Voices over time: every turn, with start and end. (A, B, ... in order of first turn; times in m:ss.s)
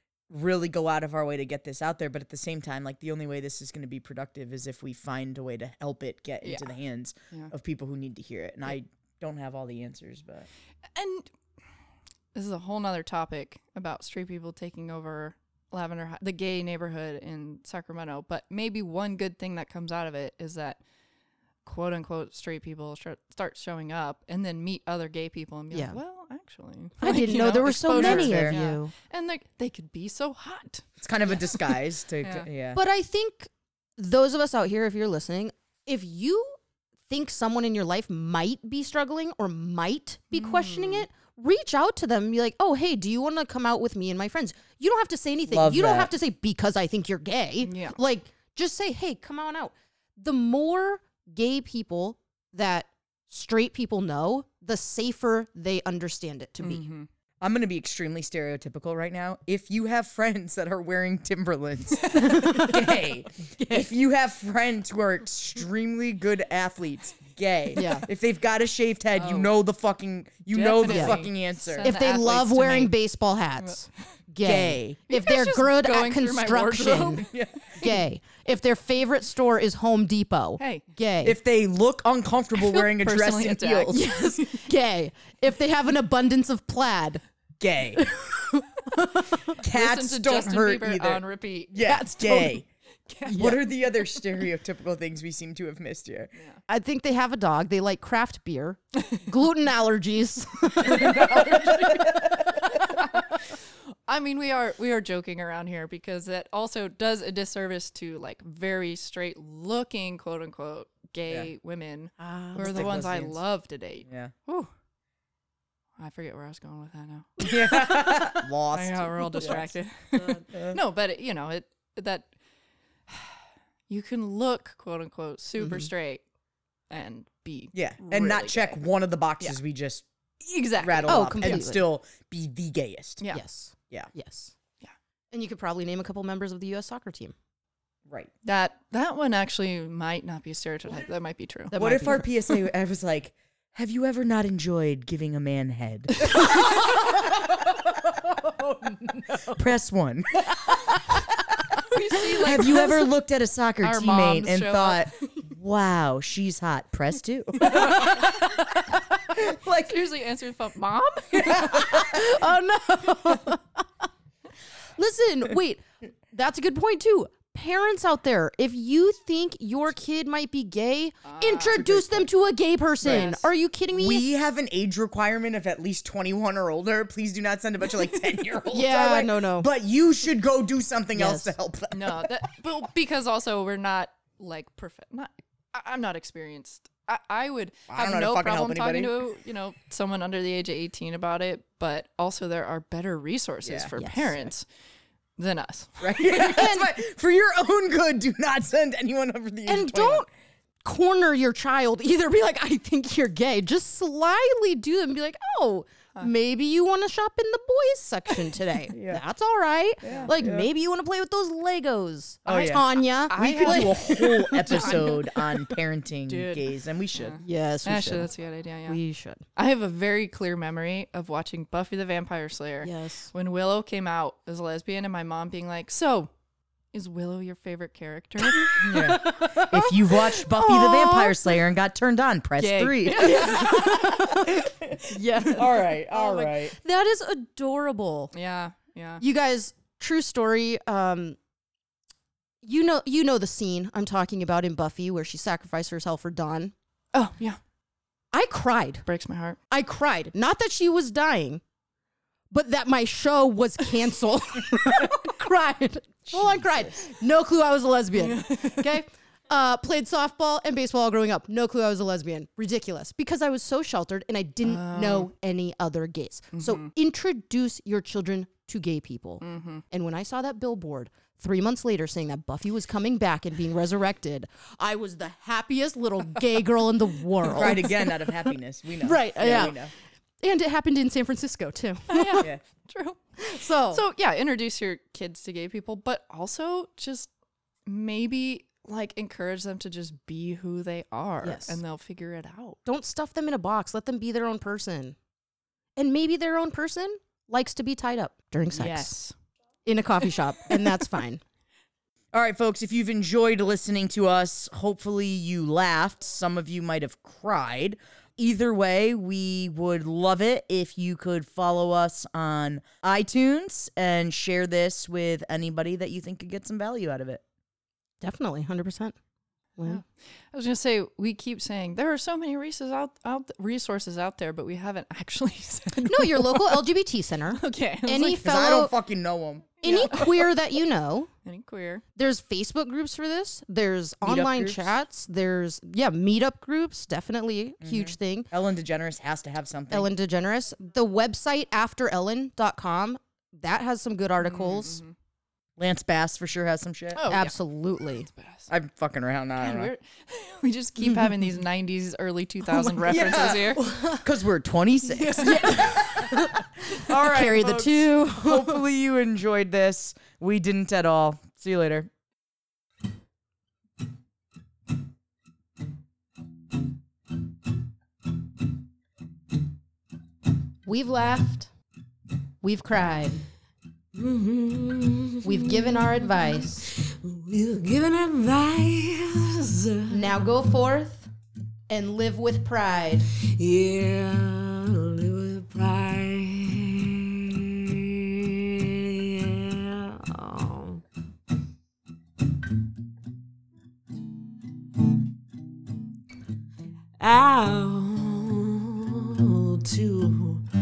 0:00.3-0:10.5 A
0:06.4-0:06.7 B
0:10.9-0:11.3 B
0:12.3-0:20.8 B
0:21.6-0:32.5 B
0:25.7-0:26.0 C
0:27.0-0:28.9 C
0:27.9-0:28.6 A
0:31.0-0:32.8 A
0:32.7-0:36.6 C
0:37.1-0:56.8 C
0:40.3-0:41.1 B
0:45.5-0:46.1 A
0:47.6-0:48.0 B
0:56.6-0:57.1 B
0:57.4-1:11.9 A
1:02.1-1:03.9 C
1:07.8-1:08.0 C
1:09.1-1:09.5 B
1:10.5-1:12.9 B
1:10.8-1:11.2 C
1:11.8-1:17.2 C
1:14.4-1:15.0 A
1:15.1-1:17.3 B
1:17.2-1:17.9 A
1:17.8-1:21.4 C
1:20.6-1:20.8 B
1:21.2-1:24.0 A
1:22.6-1:24.7 B
1:23.9-1:27.2 C
1:27.6-1:28.1 A
1:28.0-1:29.5 C
1:29.6-1:32.6 A
1:29.6-1:32.0 B
1:31.8-1:32.5 C
1:33.1-1:33.5 B
1:33.3-1:36.3 A
1:33.3-1:33.6 C
1:36.4-1:36.6 B
1:36.7-1:42.1 C
1:40.9-1:42.7 A
1:40.9-1:42.0 B
1:42.6-1:54.7 B
1:52.2-1:53.0 C
1:52.5-1:53.4 A
1:54.1-1:54.3 A
1:56.0-2:02.3 B
1:57.4-1:59.7 A
2:00.5-2:00.8 A
2:03.1-2:03.4 B
2:03.9-2:06.2 B
2:05.6-2:05.9 C
2:06.9-2:08.8 B
2:07.7-2:10.0 A
2:10.4-2:11.5 B
2:10.8-2:13.2 A
2:11.1-2:11.8 C
2:13.3-2:14.5 C
2:15.3-2:17.3 C
2:18.4-2:21.7 B
2:21.7-2:22.4 C
2:21.8-2:27.0 A
2:26.4-2:29.6 C
2:29.6-2:30.8 A
2:30.6-2:31.0 C
2:31.9-2:33.1 B
2:32.4-2:38.1 A
2:33.8-2:35.1 B
2:37.6-2:38.5 B
2:37.7-2:38.5 C
2:39.4-2:39.7 A
2:39.7-2:42.0 B
2:41.4-2:43.8 C
2:41.5-2:41.9 A
2:45.0-2:54.2 C
2:51.2-2:51.8 B
2:51.7-2:52.3 A
2:53.0-2:53.4 A
2:53.0-2:53.5 B
2:53.9-3:02.3 A
2:58.7-2:59.7 C
3:01.1-3:01.5 C
3:01.9-3:14.6 B
3:07.9-3:09.2 A
3:13.6-3:13.9 A
3:14.0-3:14.5 C
3:15.4-3:16.6 B
3:16.0-3:20.2 A
3:16.3-3:16.9 C
3:19.7-3:20.3 C
3:20.8-3:35.2 C
3:28.9-3:29.2 A
3:30.0-3:30.3 B
3:30.0-3:30.7 A
3:32.4-3:37.4 A
3:33.3-3:35.6 B
3:36.3-3:39.0 B
3:37.4-3:38.3 C
3:38.9-3:39.4 C
3:39.6-3:46.3 B
3:42.8-3:43.3 C
3:46.9-3:48.7 B
3:48.5-3:51.6 C
3:48.8-3:56.8 A
3:52.6-3:54.1 B
3:53.1-3:58.3 C
3:58.3-3:59.2 B
3:59.2-4:01.4 C
4:02.6-4:06.7 C
4:07.1-4:07.6 B
4:08.3-4:09.0 C
4:09.0-4:09.6 B
4:09.7-4:11.6 C
4:12.5-4:38.4 C
4:16.3-4:16.7 A
4:18.2-4:18.9 B
4:24.6-4:25.3 B
4:26.5-4:26.9 B
4:29.4-4:29.8 B
4:37.5-4:39.9 A
4:39.0-4:39.9 C
4:40.4-4:42.5 C
4:42.1-4:47.3 B
4:43.4-4:44.0 C
4:47.8-4:52.8 B
4:51.4-4:51.8 C
4:52.8-4:55.2 C
4:56.0-4:59.2 C
4:58.7-4:59.3 B
4:59.8-5:01.4 C
5:02.3-5:17.4 A
5:18.2-5:19.1 C
5:19.8-5:26.9 B
5:26.0-5:28.9 C
5:27.5-5:28.4 B
5:28.4-5:30.1 A
5:29.8-5:30.5 B
5:29.8-5:31.3 C
5:31.4-5:32.0 B
5:32.2-5:38.5 C
5:34.2-5:34.9 A
5:37.8-5:40.1 A
5:39.9-5:45.0 C
5:44.4-5:45.1 B
5:45.8-5:47.3 A
5:47.1-5:48.7 B
5:47.3-5:48.3 C
5:48.7-5:49.9 A
5:49.6-5:53.8 B
5:51.0-5:51.4 C
5:53.0-6:02.1 A
5:53.1-5:54.2 C
5:55.0-5:56.0 B
5:55.4-5:58.8 C
6:10.8-6:11.7 C
6:12.6-6:13.4 C
6:14.1-6:20.7 D
6:15.4-6:16.9 C
6:20.1-6:21.3 C
6:21.9-6:23.3 C
6:23.6-6:31.0 D
6:37.2-6:40.6 D